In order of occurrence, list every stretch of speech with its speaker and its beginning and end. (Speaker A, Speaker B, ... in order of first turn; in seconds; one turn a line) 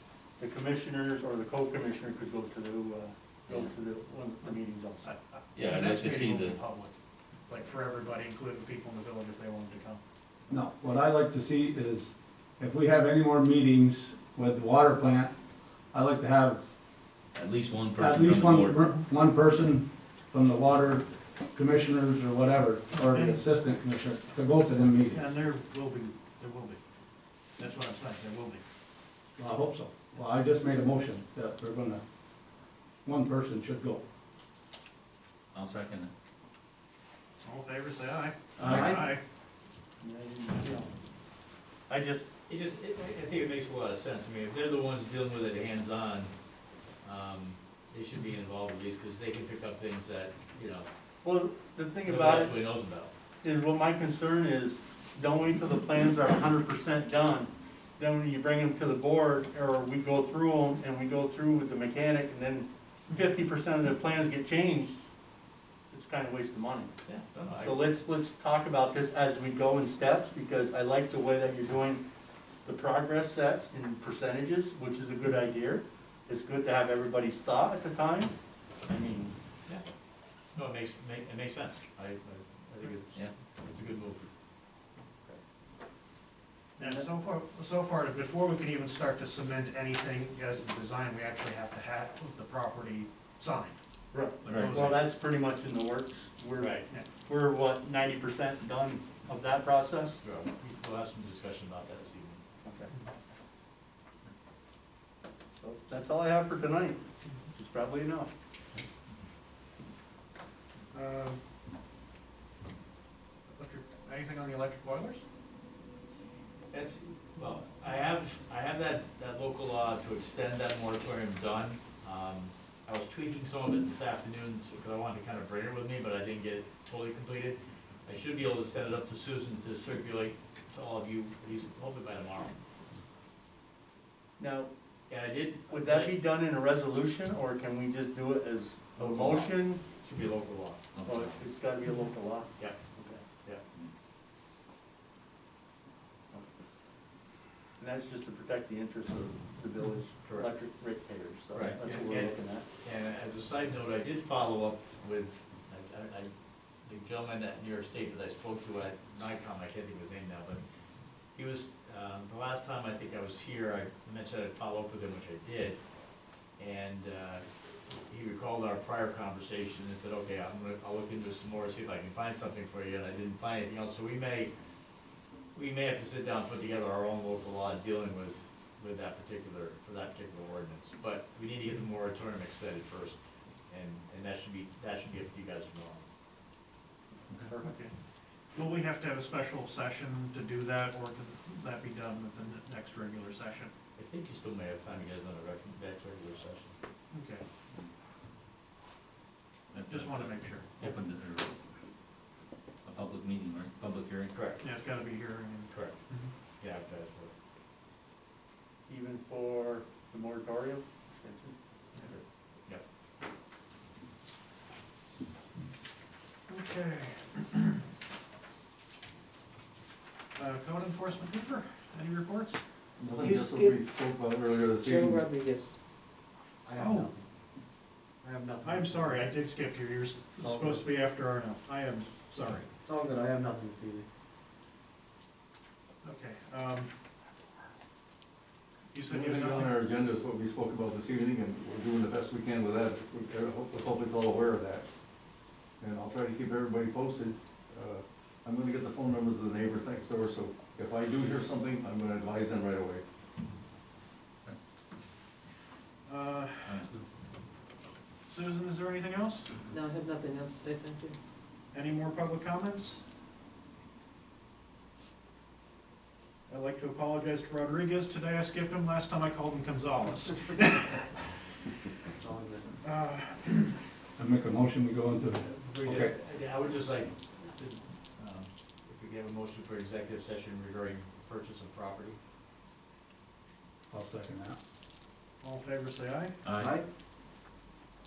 Speaker A: 0.4-5.1
Speaker B: 5.1-6.9
Speaker C: 5.5-6.6
Speaker B: 7.5-10.0
Speaker D: 10.5-15.3
Speaker D: 15.9-16.6
Speaker C: 17.4-19.0
Speaker D: 18.0-25.2
Speaker B: 22.9-23.4
Speaker B: 25.1-26.8
Speaker B: 27.6-28.6
Speaker D: 29.4-32.0
Speaker D: 33.0-34.0
Speaker C: 35.5-36.1
Speaker B: 37.4-39.2
Speaker C: 38.6-39.0
Speaker E: 38.8-39.0
Speaker A: 40.0-40.9
Speaker A: 41.9-42.3
Speaker F: 42.5-46.3
Speaker F: 47.0-50.9
Speaker A: 51.2-52.5
Speaker F: 52.0-53.1
Speaker A: 53.4-65.0
Speaker A: 65.9-66.9
Speaker F: 67.1-68.0
Speaker A: 67.6-72.0
Speaker A: 72.7-78.3
Speaker A: 78.9-79.3
Speaker F: 80.5-84.2
Speaker B: 86.8-93.8
Speaker A: 94.1-100.2
Speaker C: 94.5-94.8
Speaker B: 94.5-95.0
Speaker F: 96.6-96.8
Speaker F: 100.2-102.4
Speaker A: 102.7-102.9
Speaker A: 105.6-107.0
Speaker A: 107.5-108.3
Speaker B: 110.9-111.4
Speaker B: 113.5-115.2
Speaker F: 116.7-132.6
Speaker A: 134.4-134.7
Speaker F: 135.1-136.2
Speaker A: 135.7-139.8
Speaker F: 139.0-140.8
Speaker C: 140.9-141.4
Speaker A: 141.1-143.2
Speaker A: 147.8-152.7
Speaker F: 150.2-150.5
Speaker F: 151.5-156.3
Speaker F: 156.8-160.6
Speaker F: 161.3-165.8
Speaker F: 166.6-167.5
Speaker F: 168.1-174.5
Speaker F: 175.5-186.0
Speaker B: 187.6-187.9
Speaker B: 188.5-193.7
Speaker F: 194.0-196.8
Speaker B: 197.1-197.4
Speaker C: 199.7-201.5
Speaker B: 199.9-201.0
Speaker C: 202.9-204.4
Speaker F: 204.3-204.6
Speaker B: 204.6-206.3
Speaker F: 205.7-206.0
Speaker F: 206.6-207.3
Speaker A: 208.9-211.6
Speaker B: 216.5-217.8
Speaker B: 220.3-222.6
Speaker G: 223.0-225.3
Speaker E: 223.2-223.8
Speaker E: 224.8-225.8
Speaker E: 226.7-227.2
Speaker B: 226.8-227.0
Speaker E: 228.2-229.3
Speaker B: 228.6-232.7
Speaker E: 230.4-230.8
Speaker E: 232.9-234.1
Speaker B: 236.0-236.9
Speaker B: 238.9-239.8
Speaker G: 239.1-244.9
Speaker G: 245.8-253.0
Speaker B: 256.1-256.8
Speaker C: 256.7-257.0
Speaker B: 258.3-259.6
Speaker E: 259.7-261.2
Speaker B: 261.7-263.0
Speaker B: 266.5-271.2
Speaker E: 272.2-272.6
Speaker B: 272.8-273.8
Speaker D: 274.2-276.1
Speaker F: 275.4-282.2
Speaker D: 283.9-284.6
Speaker B: 285.4-286.4
Speaker C: 286.4-286.8